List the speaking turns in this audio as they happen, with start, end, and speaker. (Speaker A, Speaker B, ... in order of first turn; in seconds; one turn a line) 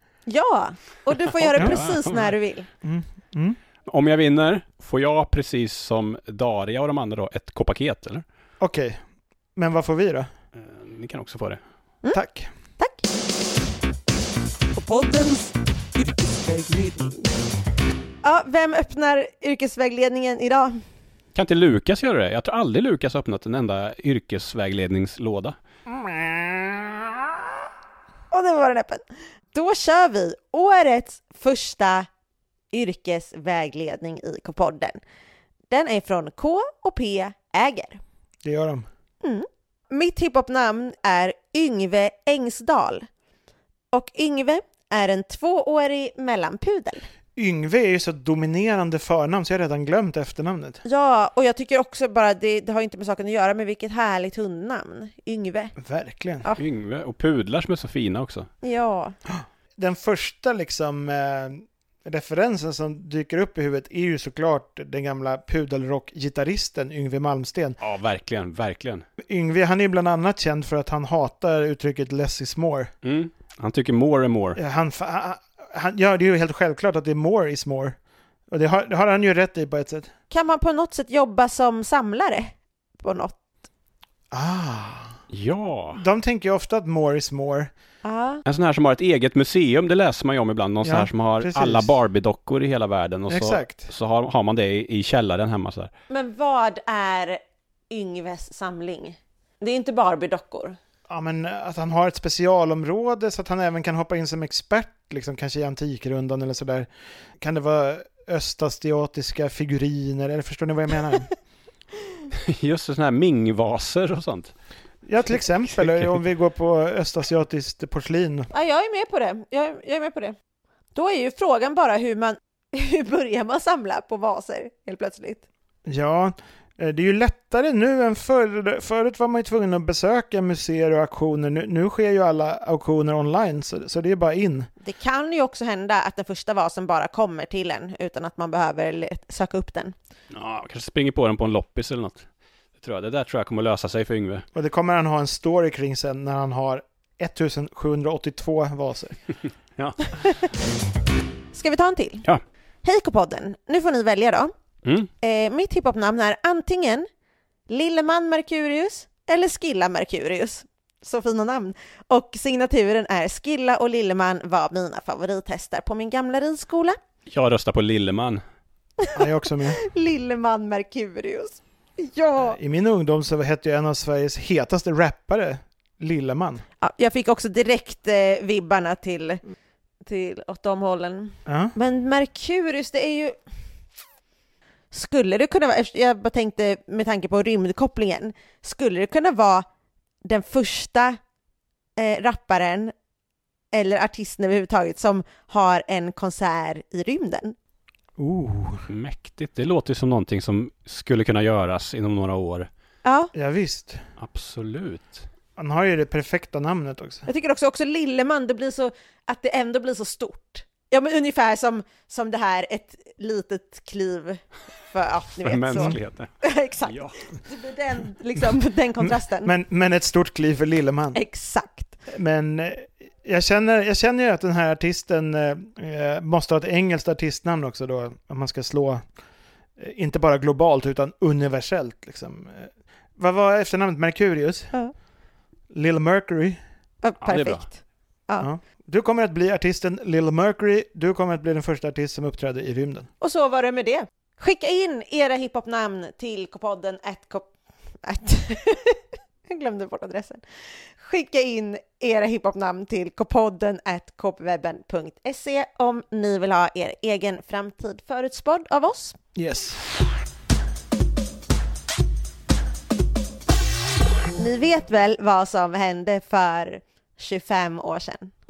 Speaker A: 0.3-2.7
Speaker B: 1.4-2.3
Speaker C: 2.8-3.6
Speaker B: 3.9-8.2
Speaker C: 8.6-9.0
Speaker C: 9.6-10.3
Speaker B: 10.6-11.6
Speaker C: 12.1-12.5
Speaker A: 12.8-13.0
Speaker A: 18.2-20.8
Speaker B: 21.4-25.6
Speaker A: 28.3-32.1
Speaker A: 32.7-35.0
Speaker A: 35.7-38.0
Speaker C: 38.4-38.9
Speaker A: 39.2-43.1
Speaker A: 43.9-47.0
Speaker C: 47.4-50.8
Speaker A: 50.8-55.7
Speaker C: 55.8-56.5
Speaker B: 56.6-58.5
Speaker A: 58.6-59.2
Speaker C: 59.3-67.8
Speaker B: 67.8-69.0
Speaker C: 69.2-72.9
Speaker B: 73.0-74.6
Speaker C: 74.6-78.0
Speaker C: 78.5-80.1
Speaker A: 80.3-83.4
Speaker C: 84.3-85.2
Speaker B: 85.3-86.0
Speaker C: 85.9-87.7
Speaker A: 88.0-88.4
Speaker B: 88.5-95.9
Speaker C: 90.8-92.0
Speaker C: 93.3-93.9
Speaker A: 96.1-100.8
Speaker C: 101.1-111.3
Speaker B: 112.3-114.5
Speaker C: 115.1-118.5
Speaker B: 115.7-116.2
Speaker A: 118.5-120.4
Speaker A: 121.0-125.4
Speaker C: 125.9-134.7
Speaker A: 134.8-139.9
Speaker B: 140.3-142.3
Speaker B: 142.8-144.4
Speaker C: 144.5-149.2
Speaker A: 151.5-152.3
Speaker A: 152.8-154.5
Speaker B: 154.8-155.1
Speaker A: 155.2-157.1
Speaker A: 157.7-167.0
Speaker B: 167.3-168.4
Speaker C: 169.2-169.8
Speaker A: 169.7-172.6
Speaker C: 172.4-176.6
Speaker A: 176.8-179.4
Speaker A: 180.0-183.4
Speaker C: 181.5-181.8
Speaker A: 184.9-189.7
Speaker A: 190.2-191.2
Speaker A: 192.0-192.9
Speaker A: 193.7-197.6
Speaker C: 198.2-198.9
Speaker B: 198.9-202.7
Speaker A: 203.1-203.3
Speaker C: 203.3-204.0
Speaker B: 204.2-205.3
Speaker C: 205.6-207.3
Speaker A: 207.3-219.5
Speaker B: 215.4-216.3
Speaker B: 216.8-217.2
Speaker C: 219.1-221.2
Speaker A: 221.1-222.0
Speaker C: 222.1-229.0
Speaker C: 229.8-234.7
Speaker C: 235.7-236.6
Speaker A: 237.0-237.8
Speaker B: 237.2-237.6
Speaker C: 238.4-243.1
Speaker A: 243.2-247.5
Speaker A: 248.0-259.2
Speaker C: 259.4-259.8
Speaker A: 264.4-268.3